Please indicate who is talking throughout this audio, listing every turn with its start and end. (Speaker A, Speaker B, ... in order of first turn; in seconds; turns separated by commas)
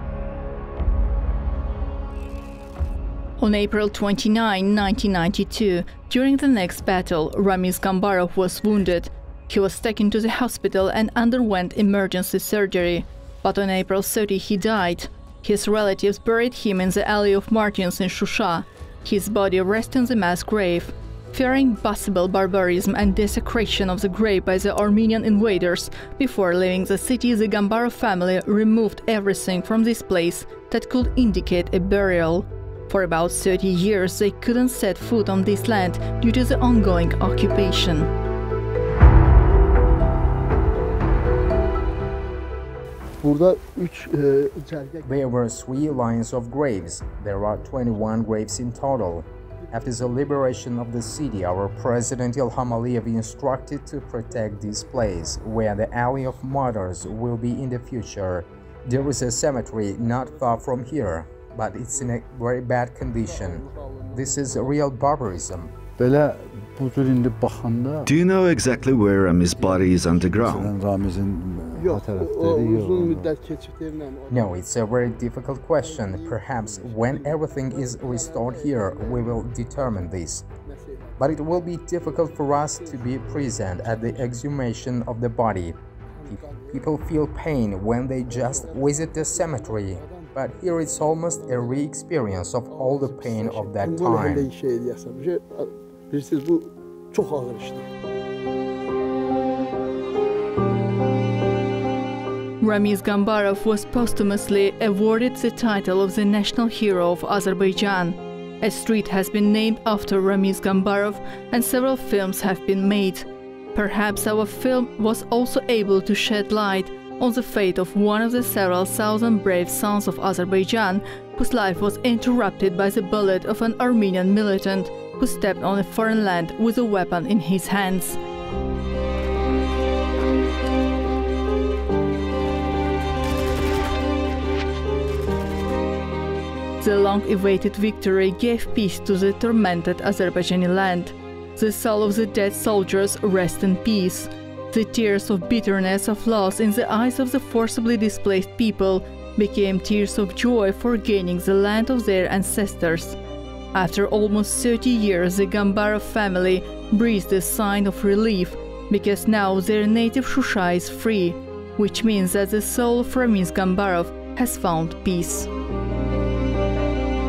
Speaker A: 3.4-38.1, Speaker B: 43.2-45.3, Speaker C: 45.0-65.7, Speaker B: 45.8-46.1, Speaker B: 49.7-50.5, Speaker B: 54.3-56.7, Speaker B: 59.2-61.0, Speaker B: 61.9-62.2, Speaker B: 63.2-64.8, Speaker D: 66.0-68.1, Speaker E: 68.0-70.7, Speaker D: 69.4-73.3, Speaker B: 71.7-74.6, Speaker C: 74.3-80.5, Speaker B: 75.8-84.5, Speaker C: 81.2-94.5, Speaker B: 86.2-87.0, Speaker B: 88.2-91.9, Speaker B: 92.7-97.9, Speaker A: 102.6-128.2, Speaker A: 136.8-153.2, Speaker A: 153.7-165.5